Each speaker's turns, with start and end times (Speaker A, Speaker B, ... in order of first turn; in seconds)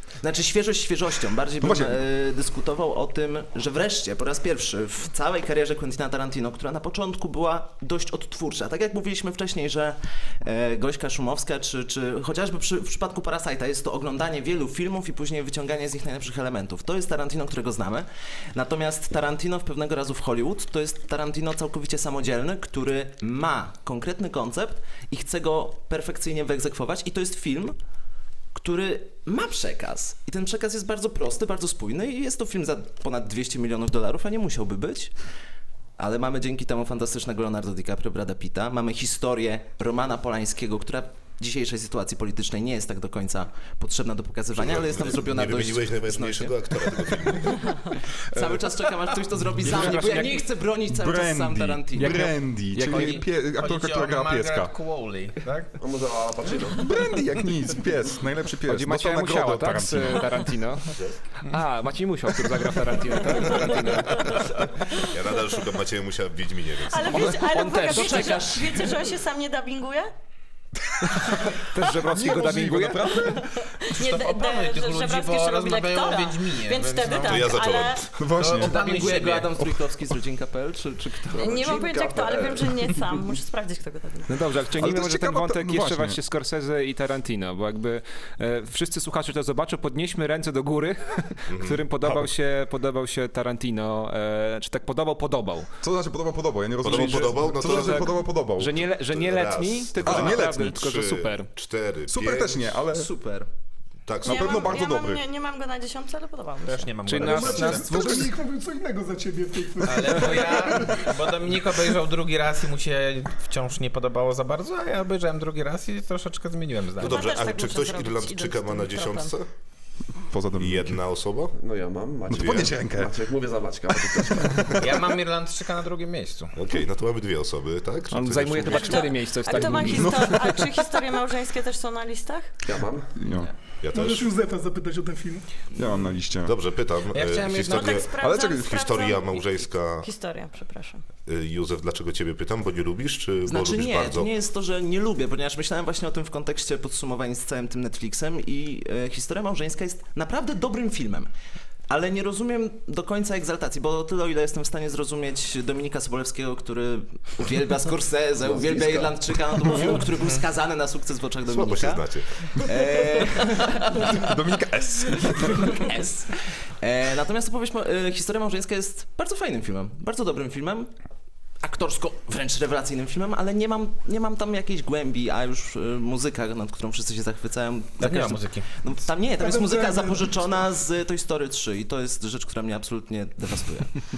Speaker A: 0.2-27.8, 28.6-35.1, 36.0-47.6, 48.3-52.4, 68.1-68.5, 78.5-81.5, 102.9-103.5, 143.5-151.3, 151.9-164.6, 165.2-170.9, 171.6-184.0
Speaker B: 1.6-2.0, 49.6-50.0, 50.9-54.7, 56.8-60.2, 71.0-71.4, 72.0-73.5, 78.2-78.7, 84.8-86.2, 92.0-92.3, 95.8-98.7, 100.0-100.9, 102.1-103.1, 104.3-105.2, 107.9-108.2, 120.3-121.0, 122.3-123.2, 123.9-124.9, 129.6-130.3, 133.2-133.5, 135.7-136.6, 138.2-138.8, 159.6-160.1, 164.0-165.8
Speaker C: 44.5-47.6, 65.0-67.4, 77.2-78.2, 91.5-91.8, 96.8-98.2, 98.8-102.8, 104.1-104.9, 117.0-119.5, 120.6-121.5, 126.5-129.1, 133.8-134.3, 136.4-140.1, 141.2-144.3, 161.5-162.2
Speaker D: 49.6-50.4, 52.7-53.2, 58.7-64.4, 67.1-68.9, 71.6-73.1, 84.3-95.7, 96.9-101.5, 107.1-108.3, 128.1-130.6
Speaker E: 52.9-55.8, 74.0-77.6, 78.3-79.5, 106.7-107.8, 109.8-117.3, 124.8-126.6, 137.1-138.0, 178.0-178.7
Speaker F: 55.8-56.9, 81.4-83.2, 121.6-124.7, 132.7-133.1, 158.4-159.2
Speaker G: 66.9-70.1, 73.2-78.1, 81.4-84.4, 104.3-107.1, 117.0-119.3, 128.7-132.5, 137.6-141.0
Speaker H: 107.2-111.1, 133.9-135.5, 179.4-180.4